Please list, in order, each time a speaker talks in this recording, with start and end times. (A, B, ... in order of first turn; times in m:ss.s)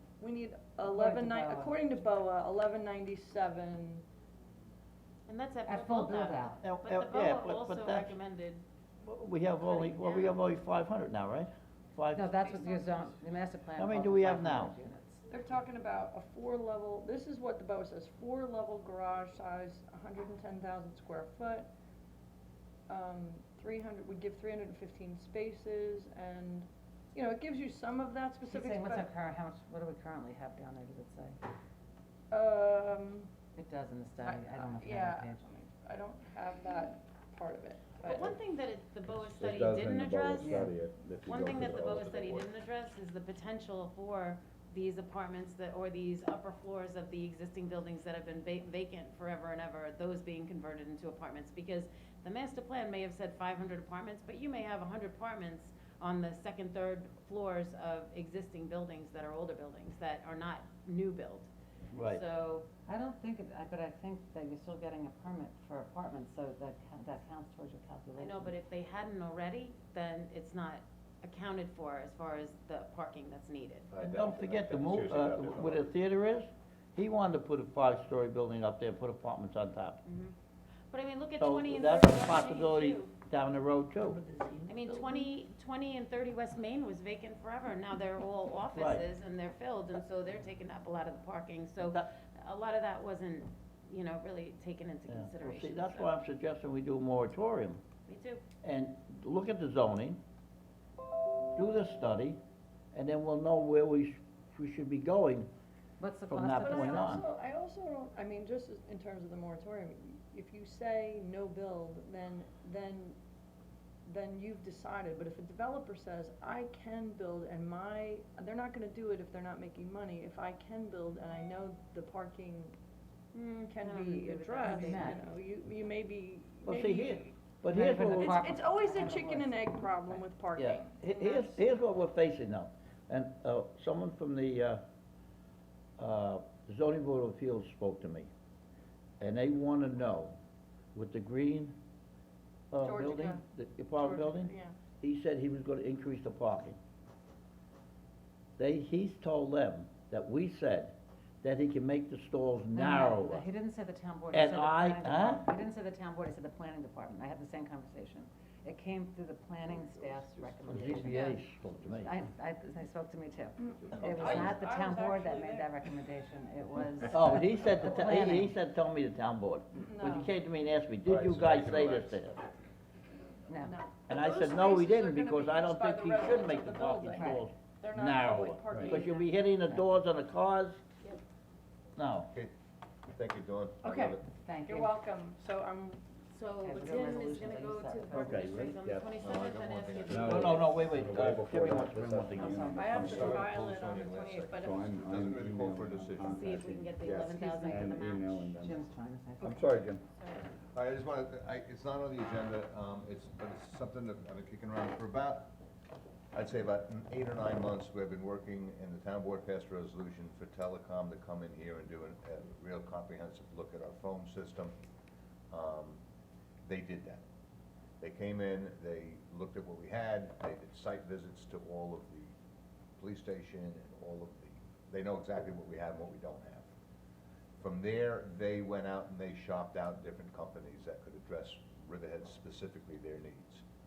0:00.2-0:04.0 A
0:00.9-0:01.8 B
0:05.2-0:08.6 C
0:05.6-0:06.6 B
0:06.6-0:08.2 D
0:09.0-0:12.3 D
0:09.6-0:10.4 C
0:12.1-0:15.3 B
0:12.4-0:13.2 A
0:13.8-0:14.8 D
0:15.3-0:21.7 A
0:22.9-0:29.1 A
0:28.4-0:31.4 B
0:32.3-0:33.3 A
0:33.5-0:35.4 B
0:34.2-0:38.4 A
0:38.0-0:40.7 C
0:39.1-0:42.1 E
0:40.4-0:40.7 B
0:41.2-1:01.5 C
0:41.7-0:42.5 F
1:01.9-1:02.2 D
1:02.0-1:02.7 C
1:02.8-1:08.6 B
1:08.2-1:13.9 C
1:13.9-1:16.0 F
1:14.0-1:20.0 D
1:20.0-1:20.3 C
1:20.9-1:23.1 C
1:21.4-1:24.2 D
1:24.1-1:25.3 A
1:24.7-1:36.1 C
1:28.7-1:29.0 D
1:31.8-1:32.1 D
1:35.1-1:37.8 D
1:38.0-1:38.4 C
1:38.6-1:40.2 D
1:41.5-1:42.4 D
1:42.9-1:45.5 D
1:46.0-1:47.2 B
1:46.3-1:47.2 D
1:46.6-1:53.2 A
1:54.0-2:02.7 A
2:03.3-2:05.2 C
2:03.6-2:07.3 A
2:04.6-2:05.3 B
2:06.6-2:08.4 D
2:07.7-2:10.2 B
2:08.1-2:11.6 A
2:10.6-2:14.8 D
2:16.0-2:18.3 D
2:19.2-2:20.4 D
2:20.9-2:21.8 D
2:22.7-2:26.8 D
2:22.8-2:23.4 A
2:24.0-2:24.7 A
2:28.6-2:33.5 D
2:32.7-2:48.5 B
2:34.3-2:35.5 D
2:39.7-2:40.9 F
2:40.7-2:42.2 D
2:43.6-2:45.9 A
2:43.9-2:44.5 F
2:44.0-2:44.5 D
2:47.1-2:52.4 D
2:49.8-2:50.3 A
2:51.0-2:52.4 F
2:53.5-2:53.7 B
2:53.5-2:59.3 A
2:54.1-3:00.8 D
2:57.1-2:57.4 B
2:58.7-2:59.0 E
3:02.0-3:02.3 D
3:03.1-3:04.2 F
3:03.8-3:05.0 B
3:04.6-3:06.0 A
3:06.3-3:10.8 C
3:06.6-3:08.4 B
3:08.1-3:09.0 D
3:08.2-3:09.0 E
3:09.2-3:11.4 F
3:10.1-3:13.6 E
3:10.2-3:13.3 D
3:12.4-3:12.8 B
3:12.7-3:14.8 A
3:13.0-3:16.6 F
3:14.5-3:18.8 E
3:16.2-3:18.5 C
3:17.2-3:17.9 B
3:18.6-3:19.7 B
3:19.4-3:20.0 E
3:20.1-3:20.4 C
3:20.7-3:25.5 F
3:26.3-3:34.7 F
3:35.5-3:36.0 F
3:36.6-3:37.2 F
3:38.0-3:42.3 F
3:43.0-3:46.7 F
3:47.6-3:53.6 F